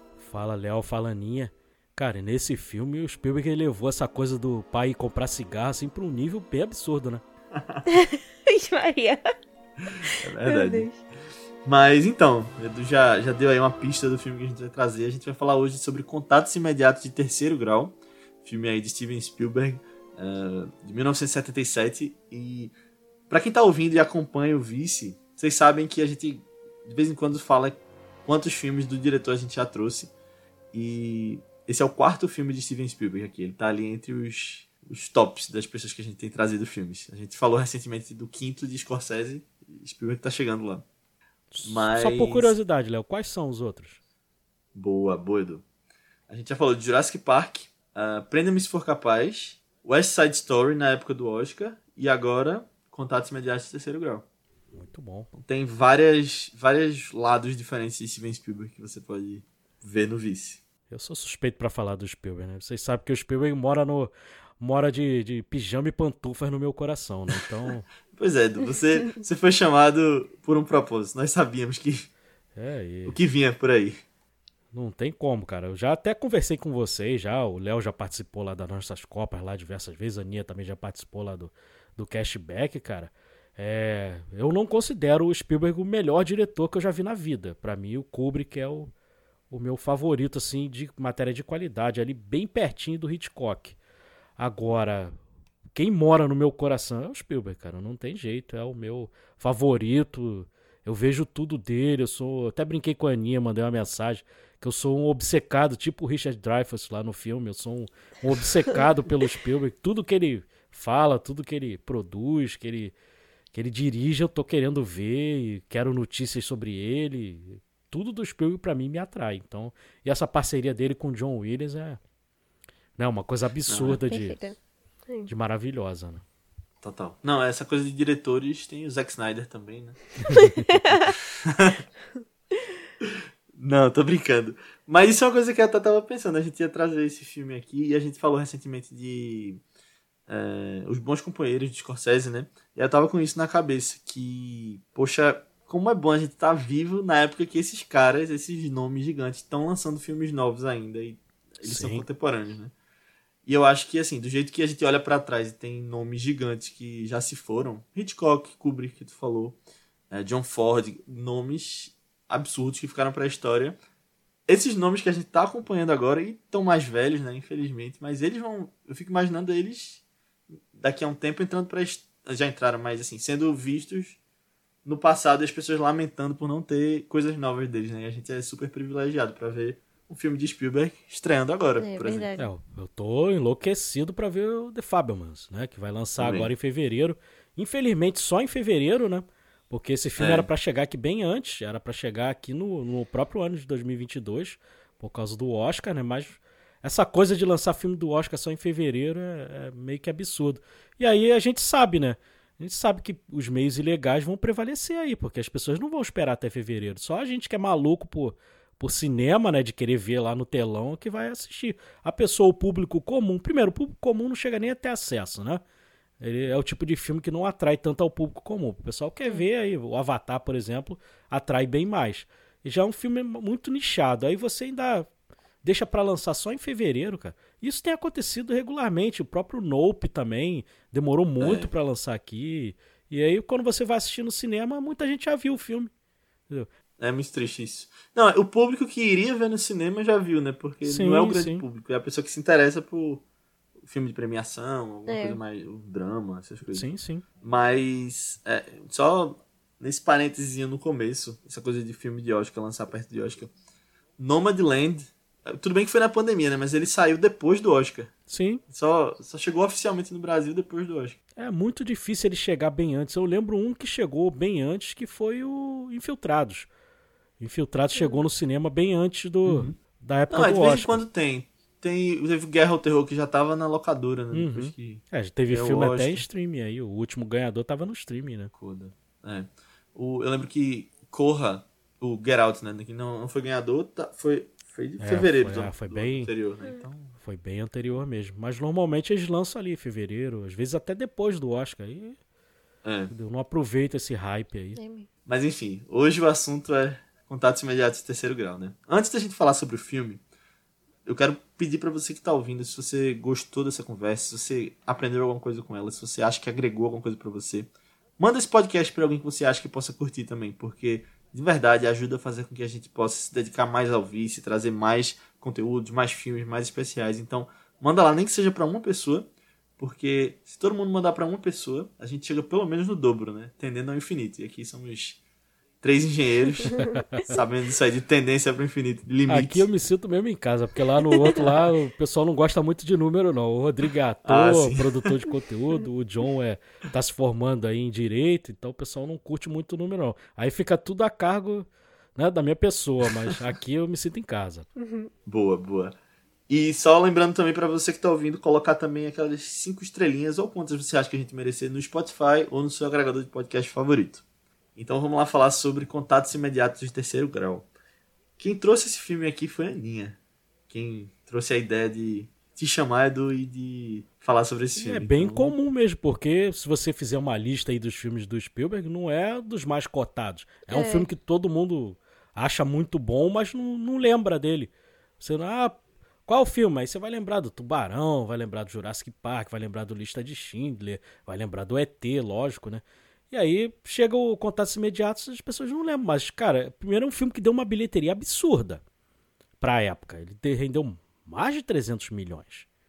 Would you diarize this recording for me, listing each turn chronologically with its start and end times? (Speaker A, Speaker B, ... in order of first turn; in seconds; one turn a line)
Speaker A: 0.2-7.2
Speaker B: 7.8-9.2
Speaker B: 9.9-11.0
Speaker C: 10.1-10.9
Speaker C: 11.6-22.7
Speaker C: 23.3-30.1
Speaker C: 30.7-40.8
Speaker A: 41.5-44.0
Speaker C: 41.6-42.5
Speaker C: 44.7-45.6
Speaker C: 46.3-54.2
Speaker A: 54.7-55.3
Speaker C: 55.3-60.6
Speaker A: 60.9-67.9
Speaker C: 68.1-72.1
Speaker A: 72.5-73.2
Speaker C: 73.0-74.0
Speaker A: 74.7-88.9
Speaker A: 89.5-93.8
Speaker A: 94.4-95.1
Speaker A: 95.7-112.9
Speaker A: 113.5-122.0
Speaker A: 123.0-124.4
Speaker C: 123.7-124.0
Speaker B: 123.9-124.6
Speaker A: 125.3-126.2
Speaker C: 126.8-130.0
Speaker A: 130.3-130.7
Speaker B: 130.3-131.2
Speaker C: 131.4-131.8
Speaker C: 133.0-139.6
Speaker C: 140.3-152.7
Speaker A: 151.6-152.0
Speaker C: 153.4-159.6
Speaker C: 160.1-163.8
Speaker C: 164.5-170.0
Speaker C: 170.7-174.2
Speaker C: 174.8-182.3
Speaker B: 181.8-182.5
Speaker A: 182.4-215.6
Speaker C: 186.2-186.5
Speaker C: 190.2-190.5
Speaker A: 216.2-225.1
Speaker A: 225.6-235.9
Speaker C: 231.4-231.7
Speaker C: 237.0-243.2
Speaker A: 240.8-241.6
Speaker C: 243.8-246.8
Speaker B: 245.1-245.4
Speaker A: 246.7-247.2
Speaker C: 247.4-253.5
Speaker C: 254.2-258.1
Speaker A: 258.3-258.6
Speaker C: 258.7-261.2
Speaker A: 261.4-266.7
Speaker A: 267.4-271.0
Speaker B: 267.9-268.2
Speaker C: 269.4-269.7
Speaker C: 270.3-276.2
Speaker A: 274.3-278.5
Speaker C: 278.5-287.1
Speaker A: 285.0-286.3
Speaker A: 287.2-292.2
Speaker C: 292.8-293.1
Speaker A: 293.1-294.8
Speaker B: 294.8-295.1
Speaker C: 295.2-300.2
Speaker C: 301.1-325.2
Speaker C: 325.8-329.6
Speaker B: 326.7-327.3
Speaker A: 326.8-327.4
Speaker A: 329.3-344.6
Speaker C: 331.2-331.7
Speaker C: 334.2-335.2
Speaker B: 344.8-345.1
Speaker C: 345.2-345.9
Speaker C: 346.5-354.2
Speaker C: 354.8-357.7
Speaker C: 358.4-360.2
Speaker C: 360.7-365.5
Speaker A: 364.8-388.8
Speaker B: 370.7-371.1
Speaker A: 389.6-392.6